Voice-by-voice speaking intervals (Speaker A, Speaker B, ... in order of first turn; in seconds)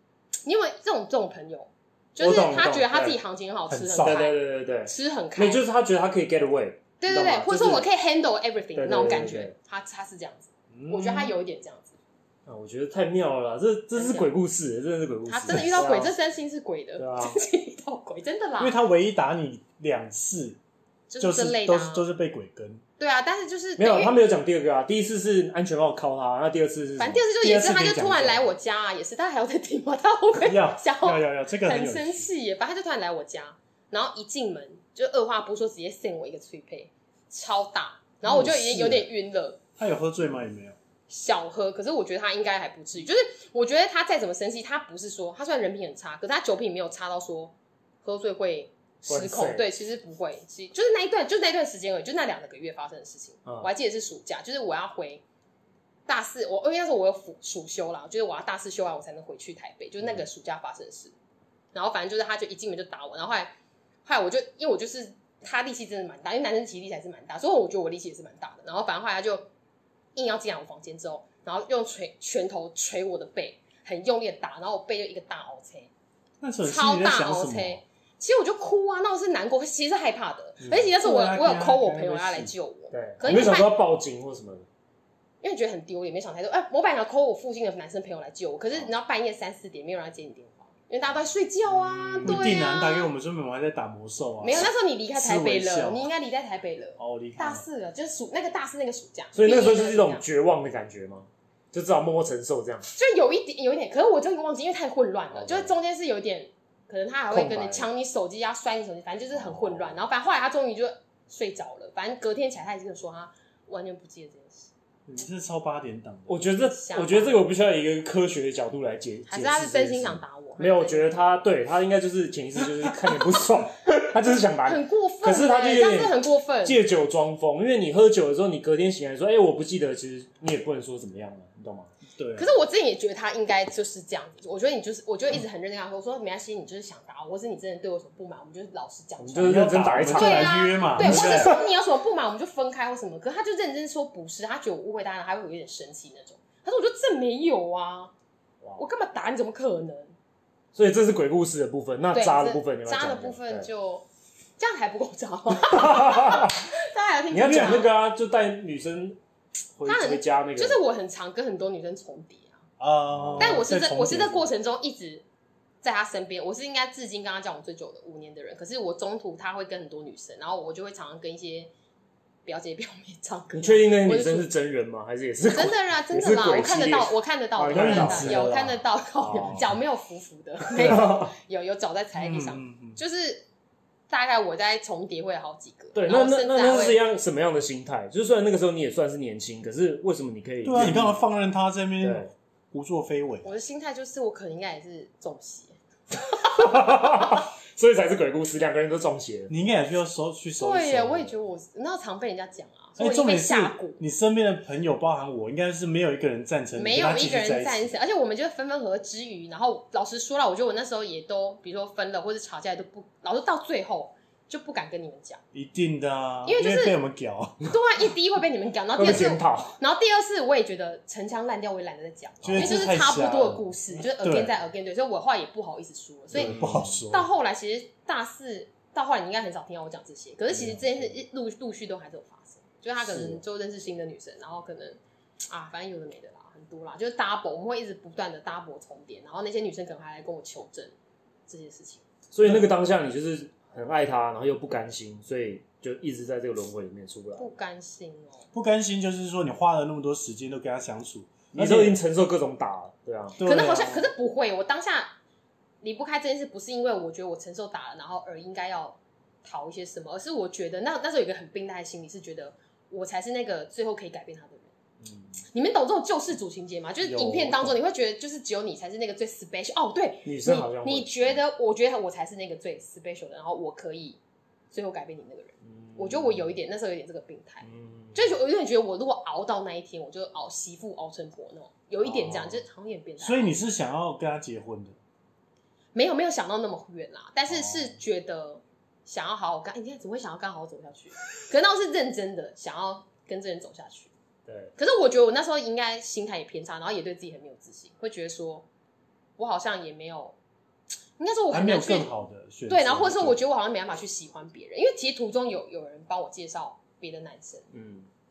Speaker A: 0.4-5.6, 7.0-11.9, 13.9-14.3, 15.3-18.8, 21.1-22.1, 23.0-24.2, 27.0-39.6, 41.1-55.2, 56.1-61.1, 61.7-63.5, 64.0-69.5, 70.1-75.9, 76.6-83.7, 85.4-93.1, 94.4-100.2, 102.9-114.7, 116.7-117.4, 119.3-121.1, 124.6-126.8, 132.3-148.1, 148.8-150.1, 152.1-154.1, 154.6-157.9, 159.8-162.6, 163.4-165.2, 165.8-171.7, 172.4-174.5, 175.5-183.4, 184.1-187.0, 193.4-195.7, 196.4-197.4, 200.6-204.0, 206.8-215.4, 216.4-216.9, 217.6-235.0, 235.5-240.9, 241.5-242.0, 247.3-248.4, 253.4-255.1, 255.8-264.7, 265.5-274.2, 274.7-283.5, 285.9-294.1, 294.8-298.6, 299.4-300.3, 301.2-302.1, 302.7-307.6
Speaker B: 2.2-3.2, 4.0-7.9, 8.8-9.5, 12.4-16.1, 17.0-17.4, 23.8-27.2, 49.1-49.6, 82.9-84.7, 91.8-92.5, 99.3-102.9, 105.3-105.7, 107.3-107.9, 109.4-109.9, 116.3-131.9, 139.2-141.6, 150.7-153.7, 155.6-156.6, 157.3-159.2, 159.8-160.8, 163.1-163.6, 173.5-178.5, 179.2-179.8, 180.7-181.3, 185.9-191.2, 192.0-192.3, 196.4-199.5, 218.9-219.8, 226.3-227.0, 230.6-230.8, 233.1-233.4, 242.3-247.5, 251.5-253.4, 270.2-271.4, 275.6-276.6, 277.6-278.3, 282.0-282.6, 294.5-294.7, 307.7-308.1
Speaker C: 3.7-4.2, 10.7-11.3, 18.6-20.6, 21.2-22.8, 27.4-28.5, 30.4-32.3, 38.2-39.0, 39.8-40.8, 76.4-77.8, 80.7-82.5, 83.3-83.5, 92.2-96.1, 97.0-97.6, 115.1-116.5, 132.2-132.5, 139.4-141.6, 162.8-164.5, 177.7-178.8, 182.1-183.0, 190.6-193.5, 199.5-201.3, 203.0-207.9, 215.5-217.7, 222.4-224.5, 226.3-227.3, 248.5-252.0, 253.3-254.1, 267.1-267.7, 283.2-284.9, 287.5-287.9, 301.5-303.4